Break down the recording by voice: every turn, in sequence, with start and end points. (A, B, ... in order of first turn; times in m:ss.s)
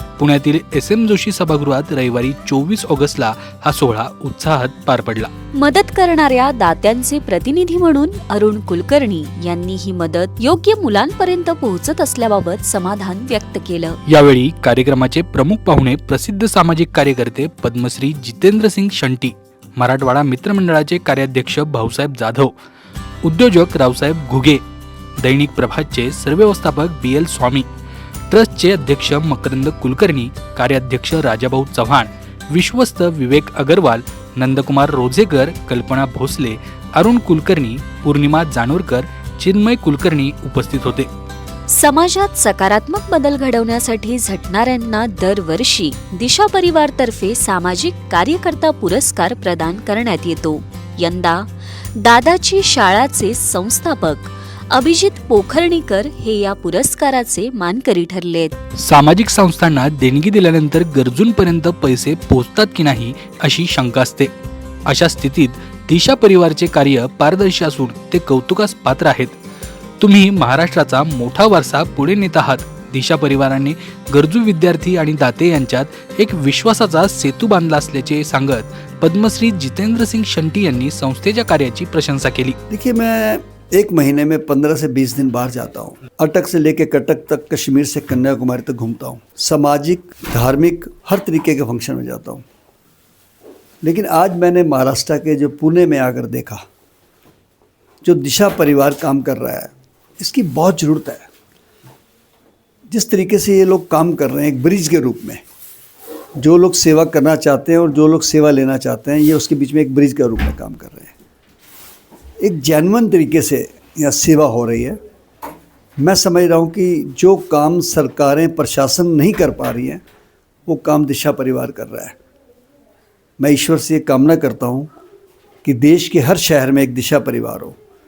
0:00.2-0:05.3 A
0:05.6-0:14.0 B
0:14.1-0:22.6 A
0:23.2-0:24.6 A
0:25.2-0:27.7 A
0:28.3-0:41.1 A
0:41.7-0:58.6 B
0:58.8-1:04.3 A
1:04.9-1:09.4 A
1:10.0-1:22.6 A
1:22.7-1:32.4 C
1:33.8-1:36.6 C
1:38.0-1:41.3 C
1:42.9-1:45.4 C
1:46.4-1:51.1 C
1:52.4-1:55.0 C
1:56.0-2:00.0 C
2:00.7-2:02.2 C
2:03.4-2:04.9 C
2:05.6-2:07.8 C